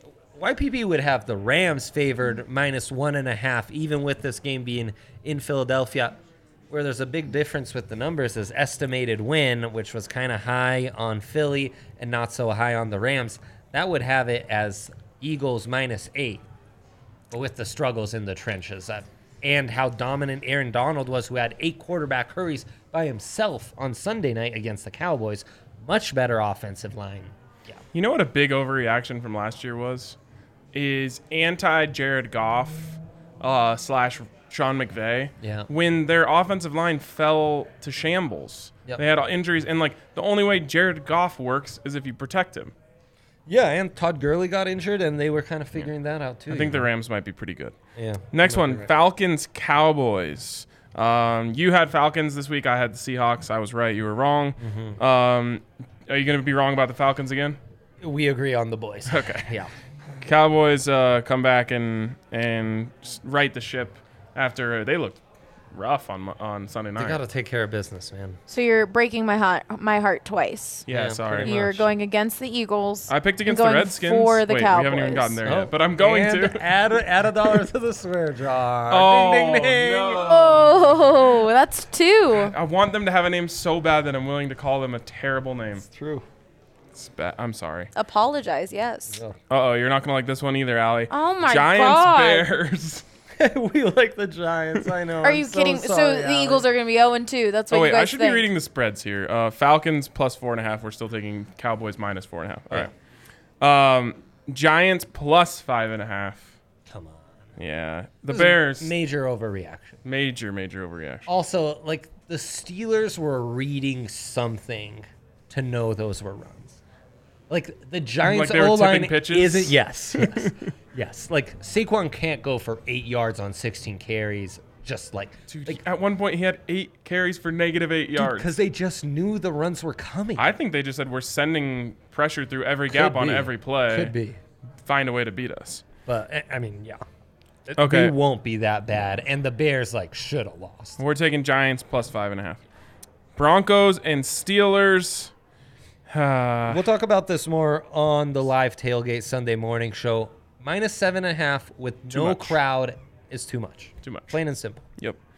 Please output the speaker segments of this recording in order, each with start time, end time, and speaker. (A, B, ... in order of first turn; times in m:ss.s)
0:00.3-0:16.4 A
0:17.3-0:27.8 A
0:27.9-0:30.2 B
0:30.7-0:42.7 B
0:35.4-0:35.7 A
0:43.5-0:46.9 A
0:46.5-0:47.7 B
0:47.9-0:48.9 A
0:48.3-0:57.6 B
0:54.6-0:55.0 A
0:58.0-0:59.7 A
0:59.1-0:59.5 B
1:00.2-1:05.2 B
1:05.7-1:07.2 B
1:07.0-1:08.4 A
1:08.5-1:10.9 C
1:10.8-1:11.9 B
1:10.9-1:11.6 A
1:11.4-1:15.4 C
1:13.1-1:16.6 B
1:15.4-1:20.3 A
1:18.9-1:20.9 B
1:20.2-1:22.5 C
1:22.4-1:25.8 B
1:25.8-1:26.2 A
1:26.9-1:27.9 B
1:27.9-1:29.2 C
1:29.1-1:29.4 A
1:29.5-1:33.0 B
1:31.1-1:32.5 C
1:33.4-1:36.6 A
1:35.2-1:38.5 C
1:37.7-1:42.9 B
1:43.6-1:46.5 B
1:46.9-1:47.4 A
1:47.6-1:48.9 B
1:48.3-1:50.0 A
1:50.0-1:51.3 B
1:51.2-1:56.8 A
1:57.5-2:05.8 A
1:58.2-2:00.5 B
2:05.5-2:08.5 B
2:08.2-2:10.5 A
2:10.4-2:14.1 B
2:12.9-2:14.4 A
2:14.8-2:15.8 B
2:16.0-2:17.0 A
2:17.6-2:21.0 A
2:17.8-2:18.1 B
2:21.0-2:22.6 B
2:23.4-2:25.3 B
2:26.1-2:26.8 B
2:26.7-2:34.8 A
2:32.1-2:32.6 B
2:34.0-2:34.3 B